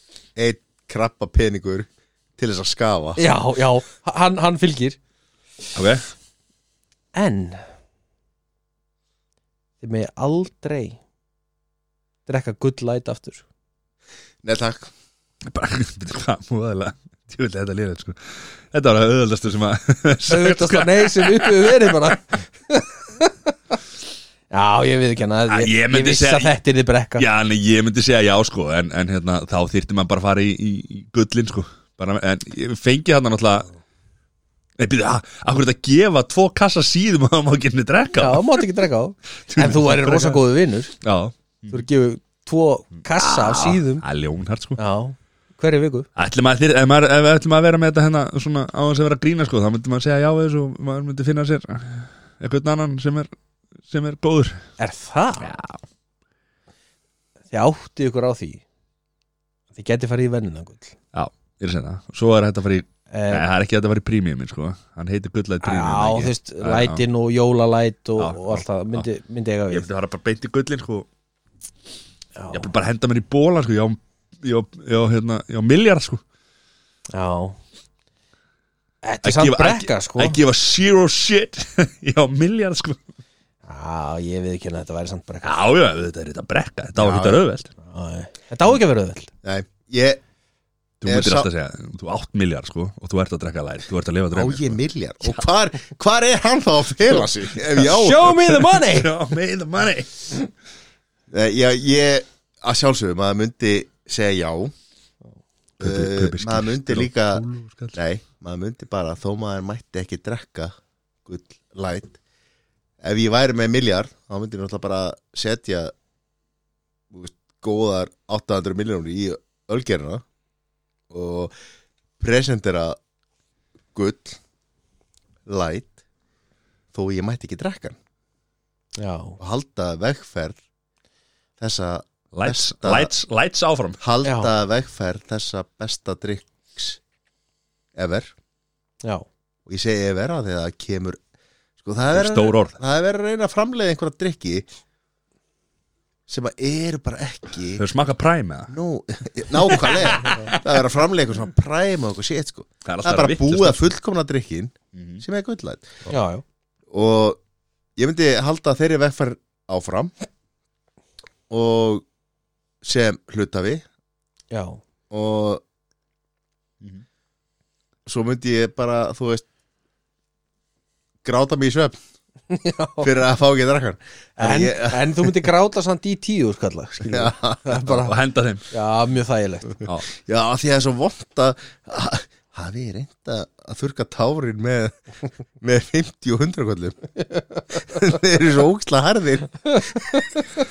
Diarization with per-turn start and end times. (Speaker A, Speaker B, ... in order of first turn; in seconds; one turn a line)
Speaker A: 0.3-3.2
Speaker B: 3.1-5.0
Speaker C: 5.7-6.0
Speaker B: 7.1-7.6
Speaker B: 9.8-11.0
Speaker B: 12.2-13.4
Speaker A: 14.4-14.9
Speaker C: 15.4-22.0
Speaker B: 20.3-23.7
Speaker B: 24.5-27.2
Speaker C: 25.5-26.6
Speaker C: 27.2-33.7
Speaker C: 34.8-38.6
Speaker B: 38.2-40.9
Speaker C: 39.5-40.4
Speaker C: 41.0-41.8
Speaker B: 41.7-44.0
Speaker C: 43.1-44.8
Speaker B: 44.8-46.1
Speaker C: 46.1-53.3
Speaker C: 53.9-54.6
Speaker B: 54.8-55.5
Speaker C: 55.4-55.8
Speaker B: 57.5-58.6
Speaker B: 59.7-60.9
Speaker C: 61.1-67.0
Speaker B: 63.1-63.4
Speaker B: 65.6-69.9
Speaker C: 68.2-69.0
Speaker C: 69.7-71.1
Speaker B: 72.3-72.7
Speaker C: 72.5-76.2
Speaker B: 77.1-77.6
Speaker B: 79.0-80.4
Speaker C: 79.2-83.0
Speaker B: 83.7-85.5
Speaker C: 85.4-87.7
Speaker A: 87.0-87.4
Speaker B: 87.8-89.3
Speaker A: 89.4-90.2
Speaker C: 91.0-94.8
Speaker A: 91.0-91.5
Speaker A: 94.3-98.3
Speaker B: 97.8-99.1
Speaker C: 97.8-100.3
Speaker A: 101.3-104.7
Speaker C: 105.8-108.0
Speaker A: 105.8-110.7
Speaker A: 111.2-112.2
Speaker A: 113.0-115.9
Speaker A: 117.1-120.2
Speaker A: 121.1-121.5
Speaker A: 122.2-123.0
Speaker A: 123.9-124.4
Speaker A: 125.5-125.9
Speaker A: 126.9-128.0
Speaker B: 129.0-129.4
Speaker A: 129.4-130.6
Speaker A: 131.6-133.1
Speaker C: 132.3-134.0
Speaker A: 134.0-137.0
Speaker B: 134.2-134.5
Speaker A: 137.9-138.3
Speaker A: 139.7-141.2
Speaker A: 141.8-144.7
Speaker C: 142.1-142.8
Speaker A: 146.3-147.8
Speaker C: 147.8-148.7
Speaker A: 148.7-156.0
Speaker C: 149.7-150.6
Speaker C: 152.8-153.9
Speaker C: 154.9-155.2
Speaker B: 156.1-156.4
Speaker A: 156.9-157.4
Speaker A: 157.9-160.2
Speaker A: 161.5-162.0
Speaker A: 162.8-163.8
Speaker B: 164.5-164.8
Speaker A: 165.1-165.6
Speaker A: 168.1-169.4
Speaker A: 171.2-171.9
Speaker B: 172.5-173.1
Speaker A: 173.0-175.3
Speaker B: 174.4-178.2
Speaker A: 177.0-177.9
Speaker C: 177.9-178.6
Speaker B: 178.7-179.8
Speaker A: 180.2-187.0
Speaker A: 187.8-190.3
Speaker B: 189.7-190.4